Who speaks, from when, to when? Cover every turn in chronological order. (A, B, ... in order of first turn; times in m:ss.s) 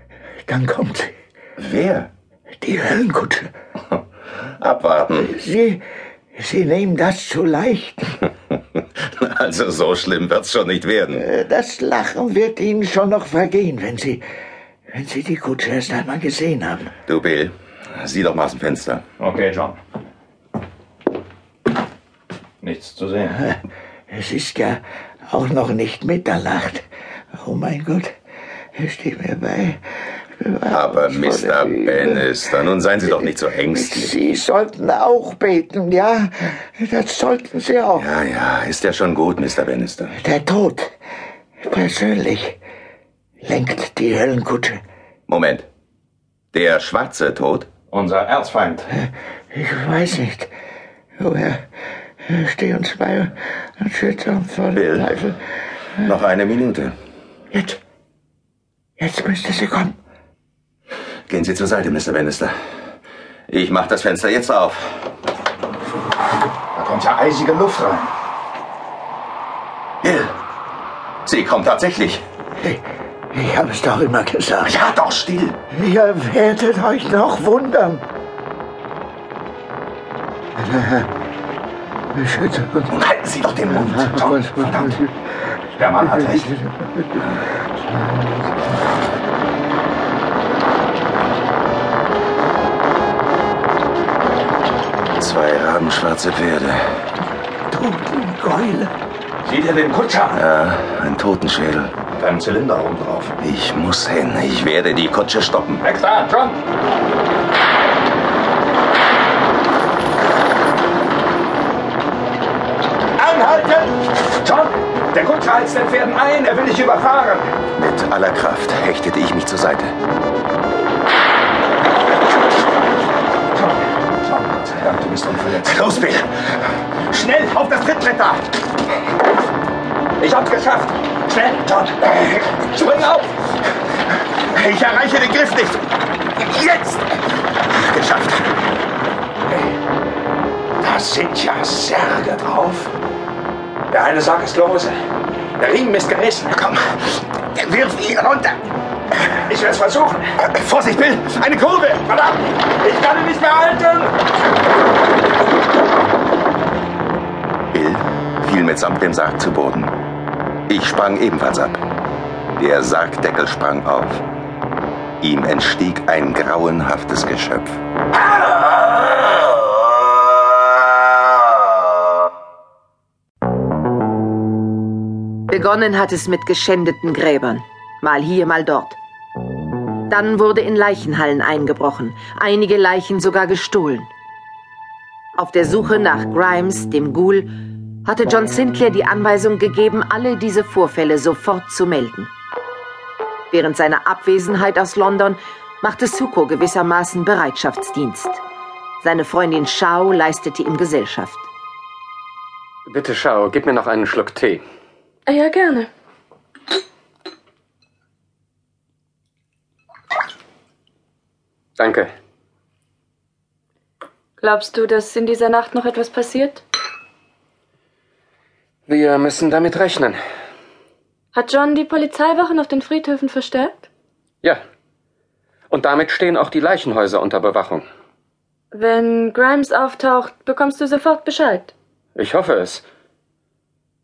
0:00.5-0:01.1 A
0:01.6-0:02.1 B
0:02.6-0:03.5 A
0:04.6-0:05.3 B
0:05.1-0:05.8 A
0:06.4-0:08.2 A
0:08.8-0:11.3 B
0:11.2-0:14.2 A
0:14.9-0:16.9 A
0:17.1-0:19.0 B
0:19.2-0:19.8 C
0:22.6-0:23.4 C
0:24.1-0:28.1 A
0:28.8-0:29.8 A
0:30.4-0:32.5 A
0:30.7-0:34.2 B
0:33.0-0:38.1 A
0:38.0-0:40.2 B
0:40.2-0:40.9 A
0:41.6-0:42.6 A
0:43.4-0:44.8 A
0:45.3-0:45.7 B
0:46.5-0:47.8 B
0:47.9-0:48.9 C
0:49.0-0:50.5 A
0:51.2-0:51.6 A
0:52.2-0:55.4 A
0:54.7-0:55.3 B
0:56.0-0:57.0 B
0:57.5-0:57.8 A
0:59.0-1:00.0 A
1:01.3-1:02.6 B
1:03.5-1:05.1 B
1:06.8-1:08.1 C
1:10.0-1:10.3 B
1:11.3-1:12.2 B
1:12.6-1:14.8 A
1:14.7-1:15.6 B
1:15.7-1:18.0 A
1:20.6-1:21.1 A
1:22.2-1:22.9 A
1:22.9-1:24.5 B
1:23.9-1:25.0 A
1:25.8-1:26.4 B
1:26.3-1:26.9 A
1:35.2-1:36.8 B
1:37.7-1:38.9 A
1:39.4-1:40.4 C
1:40.3-1:42.1 B
1:42.1-1:43.4 C
1:43.4-1:45.8 B
1:45.8-1:46.6 C
1:53.2-1:57.6 C
1:57.8-2:00.0 B
2:04.2-2:05.9 C
2:05.6-2:06.3 B
2:07.1-2:08.4 C
2:10.2-2:13.3 C
2:14.6-2:15.8 B
2:16.4-2:17.1 B
2:17.7-2:18.4 B
2:20.8-2:22.9 C
2:23.9-2:25.0 C
2:25.6-2:26.8 C
2:27.6-2:28.6 C
2:29.4-2:34.2 C
2:37.7-2:40.0 B
2:40.7-2:41.8 B
2:42.6-2:44.2 B
2:45.2-2:47.8 B
2:55.5-2:59.0 D
3:00.1-3:04.1 D
3:05.4-3:07.5 D
3:08.0-3:12.3 D
3:13.5-3:18.4 D
3:19.0-3:21.5 D
3:22.9-3:24.6 E
3:25.3-3:25.9 F
3:31.8-3:32.1 E
3:34.4-3:36.6 F
3:38.9-3:40.2 E
3:41.3-3:43.9 F
3:45.7-3:47.9 E
3:48.7-3:51.7 F
3:52.2-3:52.8 E